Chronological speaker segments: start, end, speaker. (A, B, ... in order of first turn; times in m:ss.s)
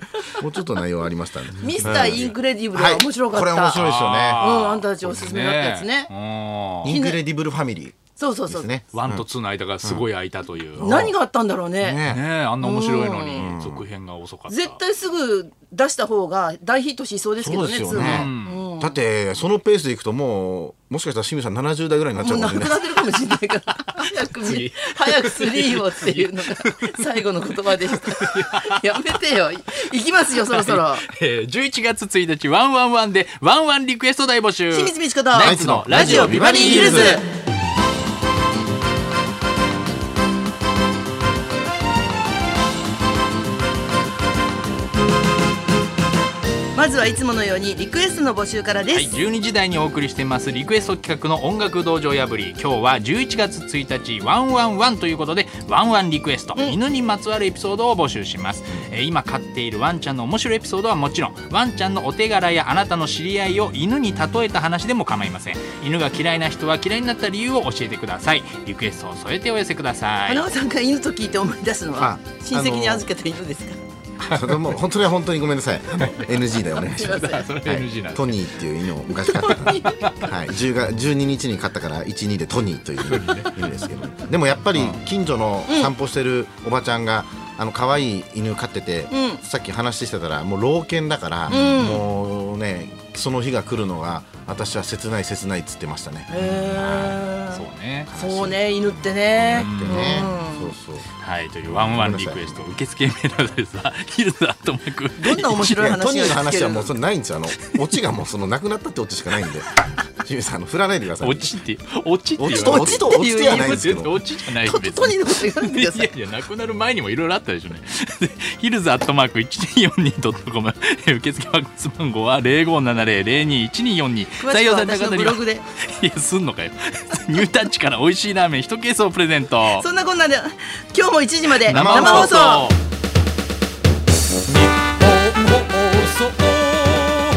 0:00.4-0:04.5 A
0:01.6-0:02.3 B
0:01.6-0:06.1 C
0:03.7-0:06.9 B
0:06.8-0:09.2 A
0:06.8-0:07.2 C
0:08.2-0:08.7 C
0:08.9-0:11.0 B
0:10.8-0:11.1 A
0:10.8-0:12.0 C
0:11.8-0:12.2 A
0:12.0-0:14.8 B
0:12.6-0:13.5 C
0:13.3-0:13.8 A
0:14.5-0:19.0 C
0:17.4-0:22.8 A
0:17.9-0:18.6 B
0:22.2-0:31.0 C
0:23.9-0:27.0 B
0:27.8-0:29.2 B
0:30.3-0:37.2 B
0:34.7-0:37.2 C
0:35.4-0:37.2 A
0:46.7-0:49.1 C
0:48.9-1:10.5 B
1:10.2-1:13.8 C
1:12.0-1:13.0 A
1:14.2-1:14.8 B
1:14.3-1:37.2 A
1:15.9-1:18.5 B
1:16.8-1:17.5 C
1:19.1-1:20.0 C
1:19.3-1:20.4 B
1:23.0-1:23.6 B
1:24.7-1:25.0 B
1:25.7-1:25.9 C
1:29.1-1:29.4 C
1:31.5-1:31.8 B
1:31.5-1:32.0 C
1:36.3-1:40.7 C
1:36.4-1:38.1 B
1:38.1-1:41.1 A
1:39.6-1:40.3 B
1:41.2-1:45.9 B
1:41.7-1:42.6 A
1:45.2-1:46.9 C
1:45.6-1:51.5 A
1:51.2-2:09.8 B
1:52.4-1:54.1 A
1:52.5-1:56.1 C
2:04.4-2:05.6 C
2:09.7-2:12.7 C
2:11.6-2:12.8 B
2:11.7-2:12.4 A
2:15.2-2:16.7 B